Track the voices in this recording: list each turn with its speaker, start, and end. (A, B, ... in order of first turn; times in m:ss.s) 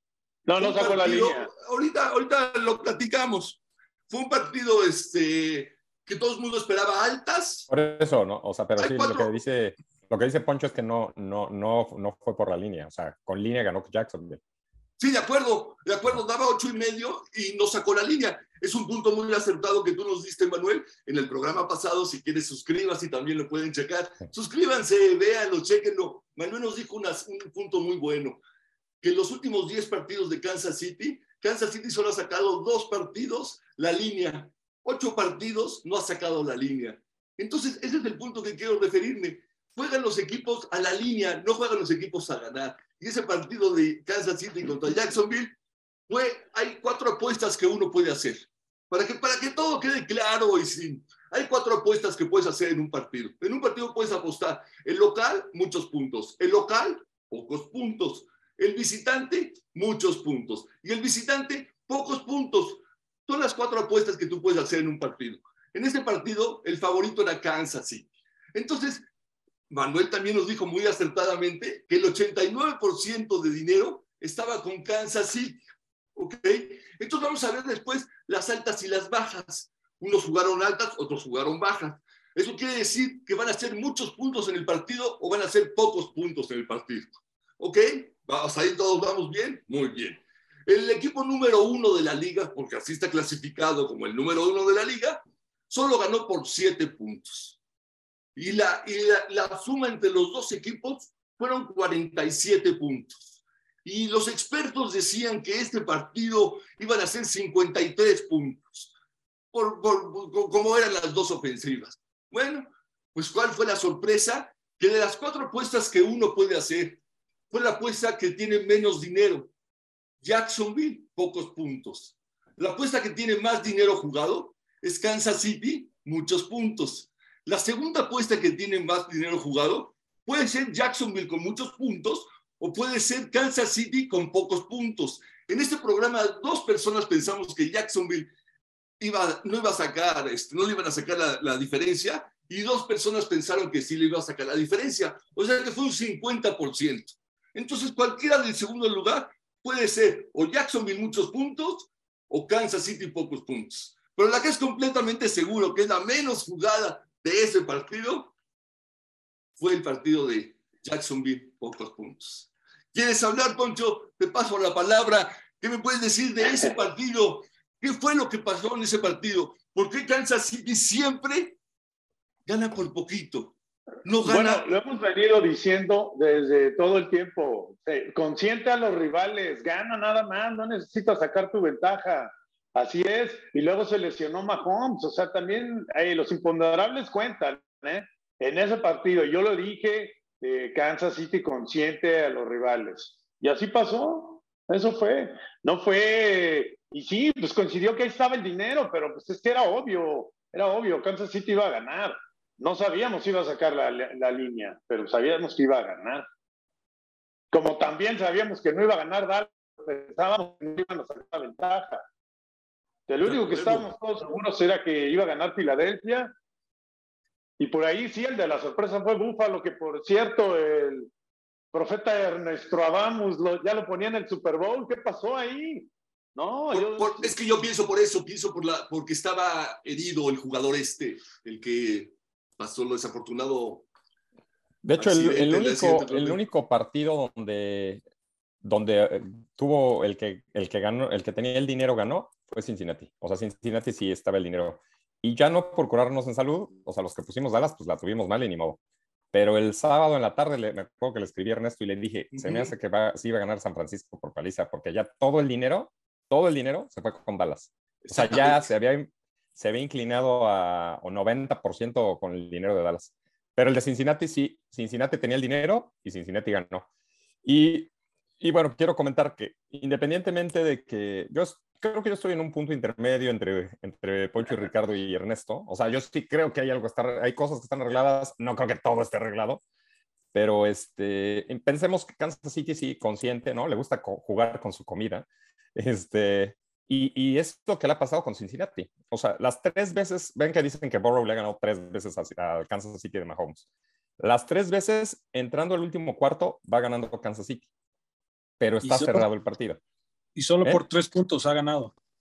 0:00.5-0:01.5 A
0:00.6-0:07.7 B
0:07.7-0:14.4 C
0:08.8-0:09.3 B
0:15.0-0:28.4 B
0:29.0-0:45.6 B
0:46.1-1:09.1 B
1:09.7-1:15.6 B
1:16.2-1:37.6 B
1:38.4-1:43.2 B
1:43.8-1:48.9 B
1:49.5-1:57.0 B
1:57.5-1:59.5 B
2:00.2-2:18.3 B
2:19.0-2:38.3 B
2:39.6-2:51.6 B
2:46.4-2:46.8 A
2:52.5-2:54.6 B
2:54.2-3:26.2 A
3:27.5-3:32.0 A
3:33.1-3:36.3 A
3:33.2-3:33.9 B
3:37.6-3:41.1 A
3:41.7-3:47.3 A
3:46.7-3:53.9 B
3:54.8-3:58.0 C
3:55.0-3:56.4 B
3:58.6-4:08.8 C
4:09.3-4:26.9 C
4:12.3-4:12.7 B
4:18.0-4:18.7 B
4:27.4-4:27.9 C
4:28.4-4:39.6 C
4:40.3-4:53.6 C
4:54.2-4:57.6 C
4:58.6-4:59.8 C
4:58.8-4:59.3 D
5:00.4-5:01.9 D